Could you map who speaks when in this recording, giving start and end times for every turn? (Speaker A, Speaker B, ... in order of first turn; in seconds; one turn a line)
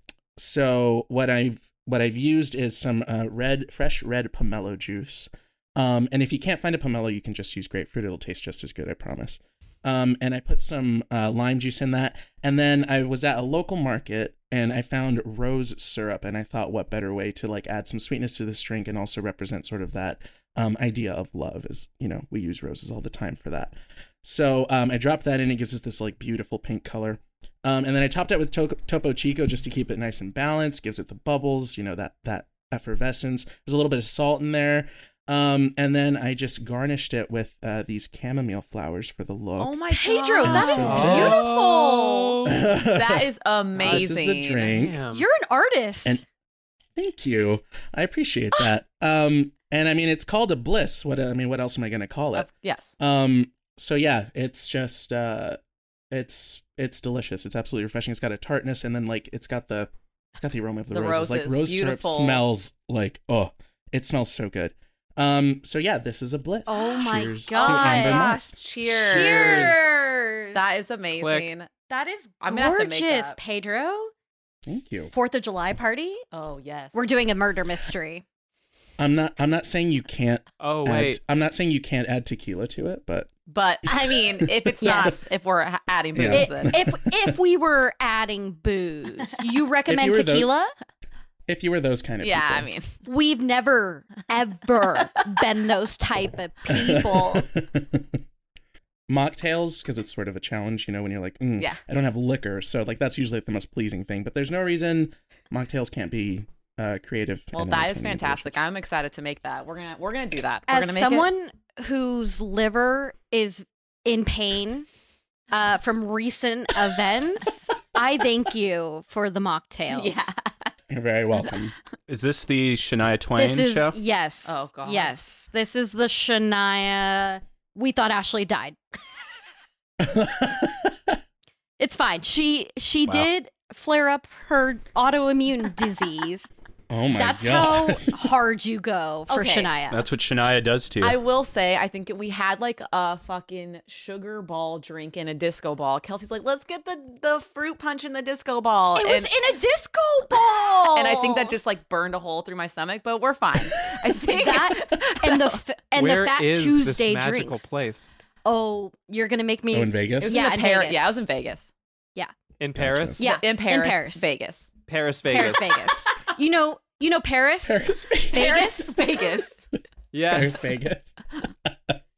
Speaker A: 0.4-39.8
Speaker B: 39.6-41.5
Speaker C: 39.9-42.4
Speaker A: 40.4-41.5
Speaker D: 40.6-42.6
Speaker A: 42.4-45.0
Speaker B: 42.8-44.7
Speaker D: 43.8-44.1
Speaker D: 44.6-45.2
Speaker C: 45.1-46.2
Speaker A: 47.0-55.6
Speaker B: 52.3-52.9
Speaker A: 56.1-68.5
Speaker B: 60.9-62.4
Speaker C: 66.7-70.7
Speaker B: 67.5-71.7
Speaker D: 71.2-71.5
Speaker C: 71.9-74.1
Speaker B: 72.4-73.4
Speaker A: 74.7-75.1
Speaker C: 75.1-76.2
Speaker B: 76.3-77.1
Speaker C: 76.9-78.2
Speaker A: 79.0-83.3
Speaker D: 80.6-81.2
Speaker B: 83.5-86.8
Speaker A: 83.9-85.1
Speaker C: 84.8-85.2
Speaker A: 86.1-87.3
Speaker C: 86.3-90.7
Speaker A: 89.9-90.5
Speaker A: 91.5-92.7
Speaker B: 92.2-92.9
Speaker C: 93.0-97.5
Speaker A: 96.7-98.2
Speaker A: 99.1-108.7
Speaker B: 107.5-111.3
Speaker C: 110.7-114.9
Speaker C: 115.5-120.3
Speaker B: 119.9-120.7
Speaker A: 120.9-121.7
Speaker E: 122.1-124.0
Speaker C: 123.3-128.8
Speaker B: 124.4-125.2
Speaker A: 130.0-131.1
Speaker C: 131.8-136.5
Speaker A: 136.9-138.1
Speaker C: 137.2-140.0
Speaker B: 139.3-139.7
Speaker E: 139.9-141.2
Speaker B: 141.0-149.3
Speaker C: 148.9-151.6
Speaker B: 150.8-155.6
Speaker C: 154.3-157.7
Speaker D: 155.9-158.1
Speaker C: 158.4-161.2
Speaker A: 159.7-160.4
Speaker B: 160.2-161.7
Speaker D: 162.6-163.2
Speaker A: 162.7-163.2
Speaker C: 163.2-164.3
Speaker B: 163.2-164.7
Speaker D: 164.9-165.7
Speaker C: 165.2-169.0
Speaker B: 165.3-165.8
Speaker A: 167.6-168.7
Speaker B: 168.3-169.6
Speaker D: 170.1-170.8
Speaker A: 170.3-171.9